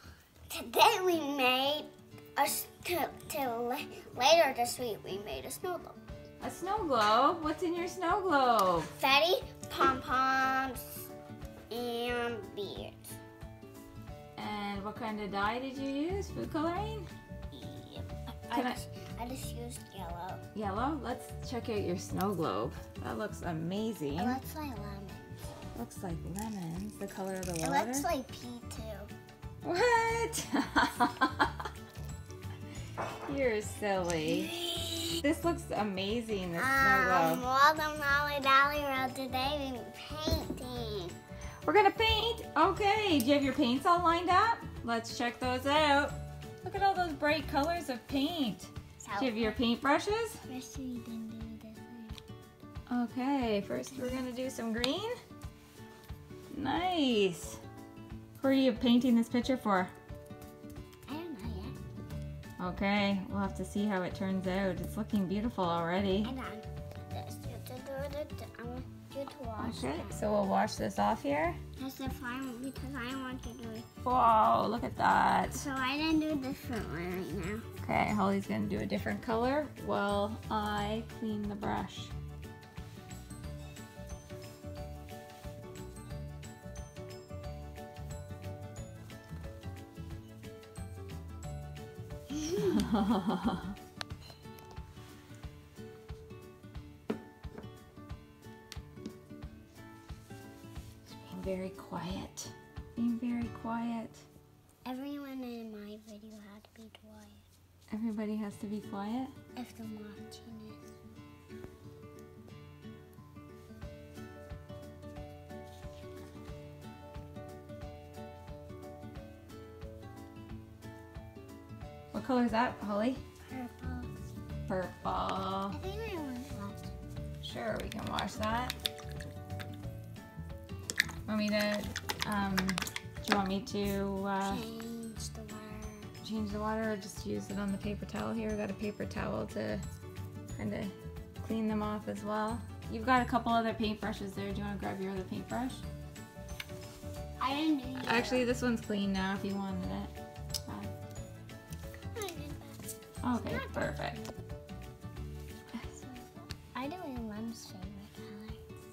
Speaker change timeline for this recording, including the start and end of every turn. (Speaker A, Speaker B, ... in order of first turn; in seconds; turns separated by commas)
Speaker A: 0.5-6.0, Speaker B: 6.4-8.9, Speaker A: 8.9-11.1, Speaker A: 11.7-13.2, Speaker B: 14.3-17.1, Speaker A: 17.5-20.4, Speaker B: 18.5-18.8, Speaker B: 20.5-24.4, Speaker A: 24.2-25.5, Speaker B: 25.7-28.1, Speaker A: 27.6-29.1, Speaker B: 29.6-31.7, Speaker B: 33.2-34.5, Speaker A: 34.2-35.2, Speaker B: 35.2-37.4, Speaker A: 36.5-41.2, Speaker B: 41.6-50.4, Speaker A: 49.0-49.6, Speaker A: 50.5-52.2, Speaker B: 52.9-55.2, Speaker B: 56.5-57.6, Speaker B: 58.4-59.9, Speaker A: 61.1-61.8, Speaker B: 62.6-66.3, Speaker A: 66.2-70.2, Speaker B: 69.6-71.6, Speaker A: 71.8-73.9, Speaker B: 74.0-75.6, Speaker A: 75.5-77.7, Speaker B: 77.8-82.1, Speaker A: 92.5-92.8, Speaker B: 92.6-93.7, Speaker B: 101.0-104.2, Speaker A: 104.8-107.4, Speaker B: 107.9-109.3, Speaker A: 109.5-110.9, Speaker B: 122.1-123.2, Speaker A: 123.5-124.1, Speaker B: 124.7-125.8, Speaker A: 125.7-126.9, Speaker B: 127.4-128.7, Speaker B: 131.2-134.6, Speaker A: 134.4-136.1, Speaker B: 136.2-139.8, Speaker B: 140.5-145.8, Speaker A: 147.4-148.5, Speaker B: 148.0-150.1, Speaker A: 152.1-154.3, Speaker B: 153.2-154.2, Speaker A: 155.8-158.6